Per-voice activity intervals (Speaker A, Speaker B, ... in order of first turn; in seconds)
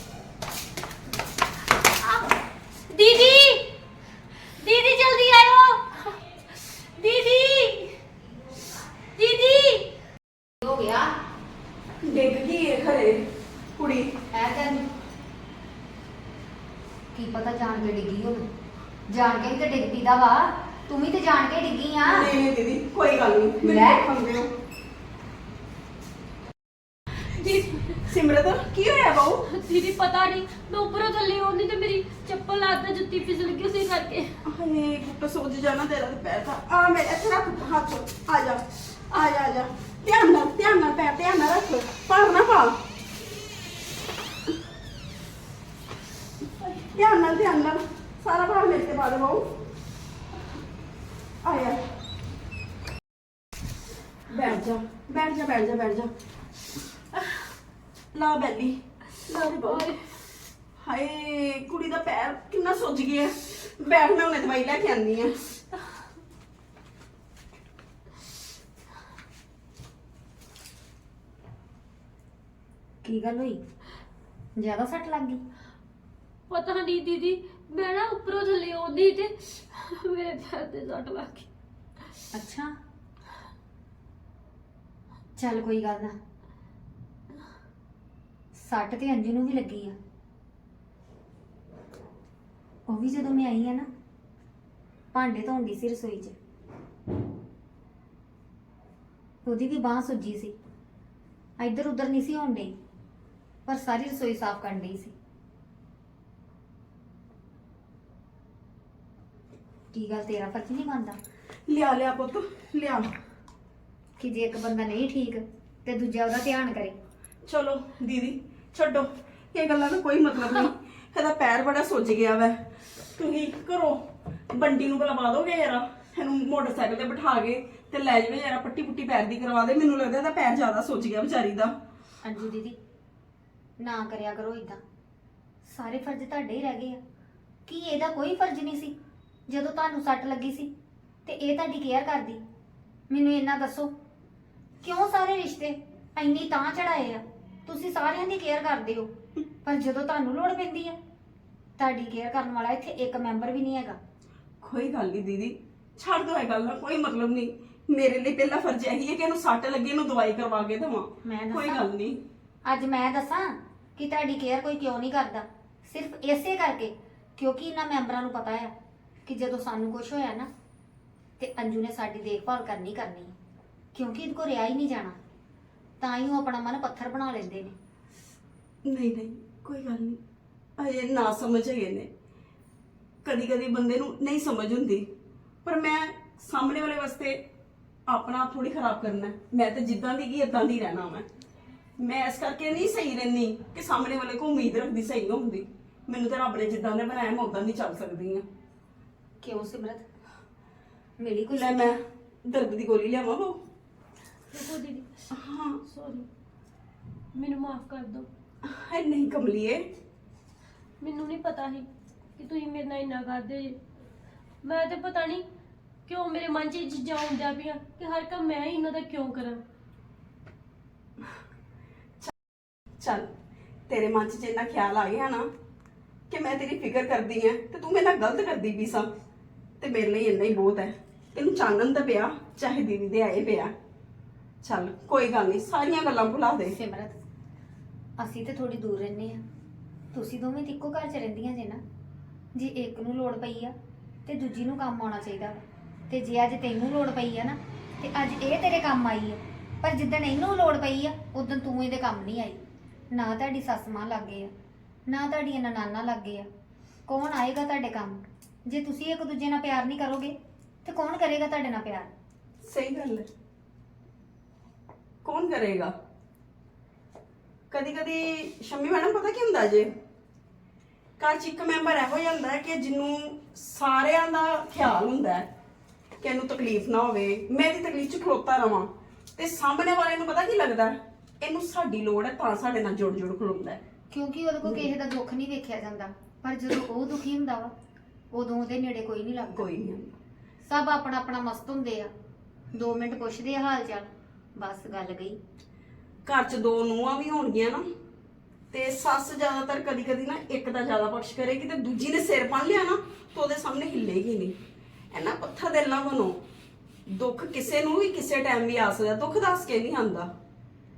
Speaker A: 2.0-2.3, 2.9-3.7, 4.6-8.0, 9.2-9.9, 27.2-28.0, 29.5-34.4, 59.3-60.1, 76.5-81.5, 204.5-205.1, 205.8-206.3, 207.3-208.3, 211.0-213.8, 214.6-215.4, 216.1-219.6
Speaker B: 10.6-11.1, 14.3-14.9, 17.1-18.5, 19.1-22.3, 23.6-24.1, 73.0-73.6, 74.6-75.4, 82.3-82.7, 85.4-86.2, 88.5-90.0, 92.9-93.9, 95.1-96.4, 99.5-100.6, 101.6-102.8, 103.7-105.2, 109.9-111.2, 114.2-117.0, 132.2-132.8, 133.8-134.8, 135.6-137.0, 137.7-139.0, 139.5-140.7, 141.2-142.4, 143.1-143.9, 144.8-149.1, 149.7-151.0, 151.8-154.0, 161.2-161.9, 162.7-168.8, 169.3-170.5, 171.4-173.3, 173.9-175.2, 176.0-177.8, 199.4-200.0, 201.2-202.0, 236.8-237.2, 238.2-239.4, 240.1-241.8, 242.6-243.8, 244.3-254.5, 255.1-256.5, 257.1-262.1, 284.1-287.7, 288.3-289.7, 290.6-292.1, 292.7-295.4
Speaker C: 12.0-14.2, 22.1-24.5, 27.9-29.5, 34.5-42.8, 46.6-49.6, 51.4-51.8, 54.3-56.1, 58.1-59.9, 60.8-65.5, 111.7-113.1, 117.5-122.6, 123.2-131.8, 154.6-162.2, 178.8-180.2, 180.8-182.1, 183.2-185.1, 185.7-187.4, 188.1-191.3, 192.0-198.4, 201.5-203.6, 205.3-205.8, 208.6-209.9, 223.0-223.3, 223.9-225.5, 226.3-229.1, 229.8-233.7, 234.6-236.8, 262.6-263.3, 265.2-265.9, 267.7-269.9, 271.2-275.5, 276.2-283.8, 289.6-290.1, 296.3-297.9, 298.7-304.6, 305.1-306.4, 307.1-310.3